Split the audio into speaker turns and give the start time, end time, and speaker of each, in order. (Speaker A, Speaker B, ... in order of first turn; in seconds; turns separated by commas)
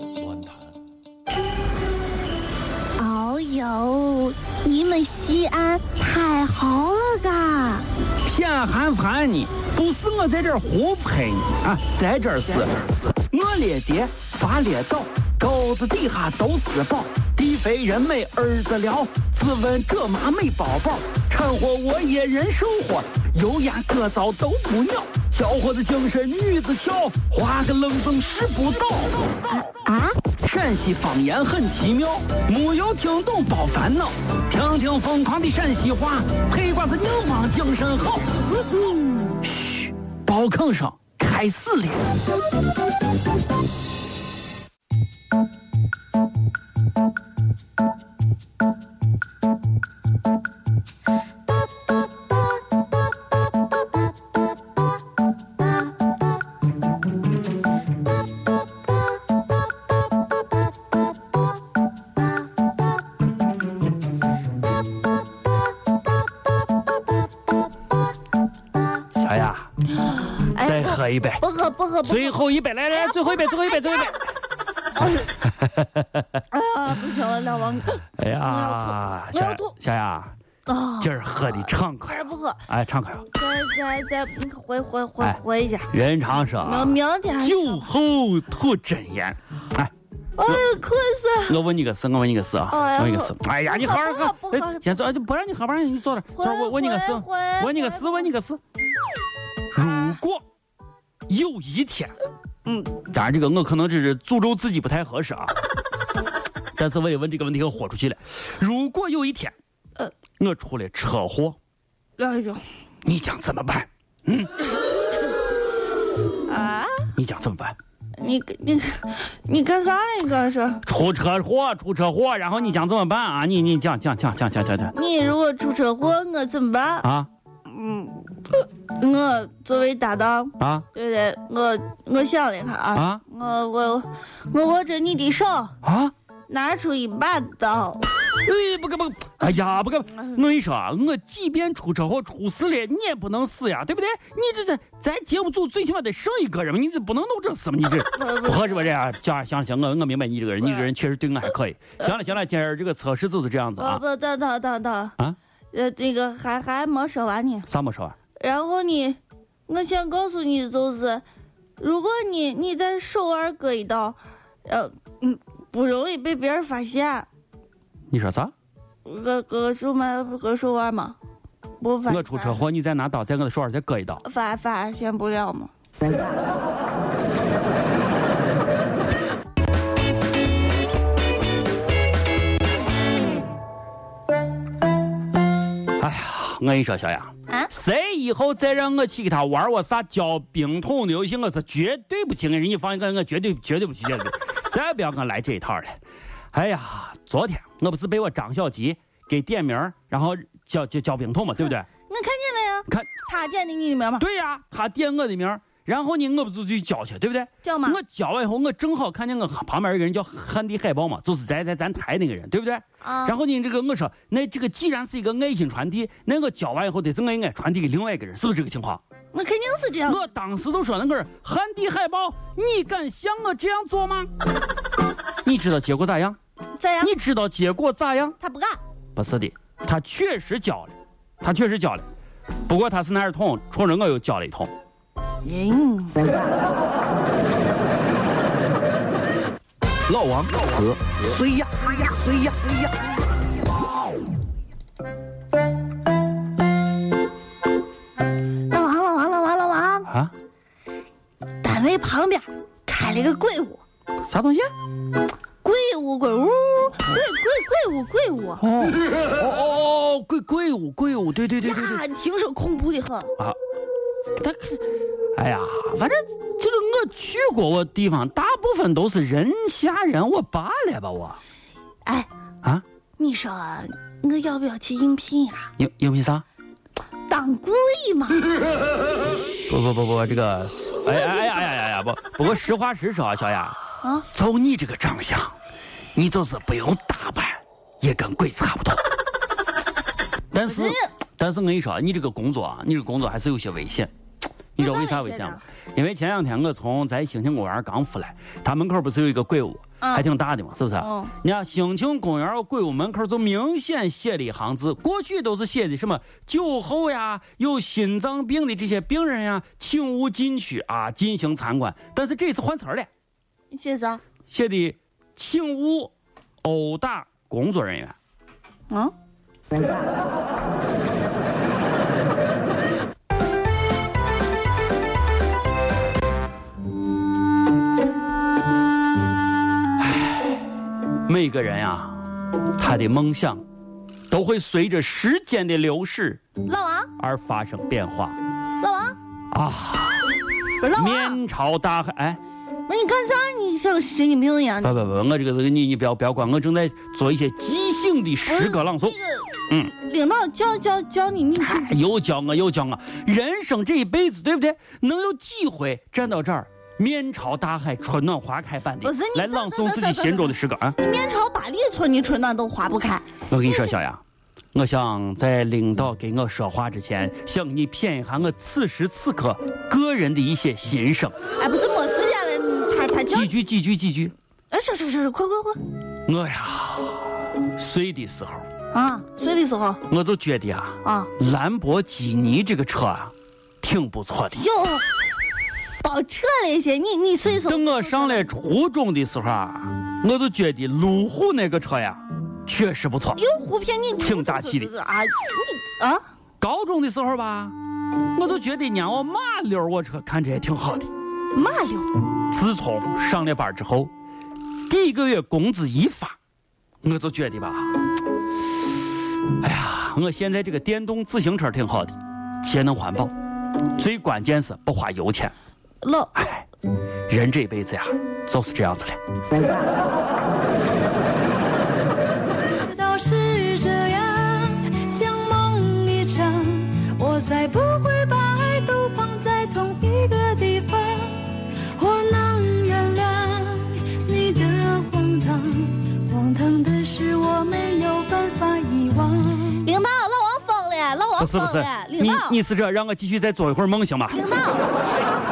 Speaker A: 3.0-7.9, Speaker B: 8.2-29.7, Speaker A: 29.9-30.1, Speaker B: 30.4-38.6, Speaker B: 39.4-42.1, Speaker B: 69.1-69.7, Speaker A: 70.0-72.4, Speaker B: 70.6-71.4, Speaker B: 72.0-74.2, Speaker A: 73.3-73.9, Speaker A: 75.0-75.3, Speaker B: 75.5-76.2, Speaker A: 76.5-79.7, Speaker B: 78.2-80.3, Speaker A: 80.7-82.6, Speaker B: 81.0-83.3, Speaker A: 83.3-85.9, Speaker B: 85.9-89.9, Speaker A: 86.6-87.9, Speaker A: 90.4-91.6, Speaker B: 91.5-98.6, Speaker A: 92.7-94.8, Speaker A: 96.4-98.3, Speaker B: 99.7-100.4, Speaker B: 101.3-102.1, Speaker A: 102.7-102.9, Speaker B: 103.0-105.5, Speaker B: 106.8-109.5, Speaker B: 110.4-111.6, Speaker A: 112.2-112.6, Speaker B: 113.0-114.6, Speaker A: 116.5-117.1, Speaker B: 117.1-117.8, Speaker A: 118.2-120.8, Speaker B: 120.8-124.9, Speaker A: 124.9-127.1, Speaker B: 127.0-127.3, Speaker A: 127.7-135.7, Speaker B: 130.6-130.9, Speaker B: 132.9-133.2, Speaker B: 135.8-136.1, Speaker A: 136.5-138.1, Speaker B: 138.4-154.0, Speaker A: 148.1-148.8, Speaker A: 150.6-150.9, Speaker A: 153.8-155.1, Speaker A: 155.7-157.7, Speaker B: 157.7-158.2, Speaker A: 158.4-161.2, Speaker A: 161.8-167.3, Speaker B: 168.1-168.5, Speaker A: 169.1-171.2, Speaker A: 171.8-172.7, Speaker B: 172.1-174.2, Speaker A: 174.2-175.7, Speaker B: 186.0-196.0, Speaker B: 196.5-201.9, Speaker A: 202.1-204.2, Speaker B: 204.2-219.0, Speaker A: 207.6-208.0, Speaker A: 213.0-213.4, Speaker A: 219.3-220.2, Speaker B: 220.1-224.3, Speaker B: 225.4-226.4, Speaker A: 226.8-227.1, Speaker B: 227.0-228.4, Speaker A: 228.4-228.8, Speaker B: 229.2-232.1, Speaker B: 232.7-234.7, Speaker A: 235.4-236.4, Speaker C: 240.1-242.6, Speaker A: 248.7-250.1, Speaker B: 250.1-250.3, Speaker A: 251.6-253.8, Speaker B: 254.2-254.7, Speaker A: 255.6-258.6, Speaker B: 258.6-262.0, Speaker A: 261.6-263.3, Speaker B: 264.4-271.4, Speaker A: 273.2-275.7, Speaker B: 275.8-276.4, Speaker A: 277.3-278.4, Speaker B: 279.7-283.8, Speaker B: 284.3-285.6, Speaker B: 286.1-289.0, Speaker B: 290.5-294.1, Speaker A: 290.6-291.1, Speaker B: 294.8-313.1, Speaker A: 294.8-295.6, Speaker A: 300.0-300.3, Speaker A: 301.0-301.3, Speaker A: 313.7-314.2, Speaker B: 314.5-316.1, Speaker B: 316.6-318.1, Speaker B: 330.0-330.6, Speaker B: 331.2-332.2, Speaker B: 332.8-333.6, Speaker B: 334.3-336.4, Speaker A: 336.6-337.1, Speaker B: 337.2-338.4, Speaker A: 338.8-339.2, Speaker B: 339.5-340.3, Speaker A: 340.8-341.4, Speaker B: 340.9-342.4, Speaker A: 342.9-344.9, Speaker B: 344.8-349.1, Speaker A: 348.5-352.0, Speaker B: 351.6-361.0, Speaker A: 359.0-363.9, Speaker B: 363.5-364.2, Speaker B: 364.7-371.4, Speaker A: 371.6-373.5, Speaker B: 373.3-374.3, Speaker A: 374.7-375.8, Speaker B: 376.2-378.7, Speaker A: 378.9-380.0, Speaker B: 380.1-384.6, Speaker A: 381.0-381.3, Speaker A: 384.6-385.0, Speaker A: 386.0-388.5, Speaker B: 387.7-393.4, Speaker A: 393.3-396.2, Speaker B: 394.2-394.9, Speaker B: 396.6-397.8, Speaker B: 398.3-401.1, Speaker A: 401.5-402.1, Speaker B: 402.5-404.1, Speaker B: 404.9-406.4, Speaker B: 407.0-408.0, Speaker B: 409.6-413.3, Speaker B: 413.9-415.5, Speaker A: 416.0-416.3, Speaker B: 416.4-416.6, Speaker B: 417.3-419.2, Speaker D: 422.8-439.7, Speaker A: 439.8-442.6, Speaker B: 441.4-444.4, Speaker A: 444.3-444.9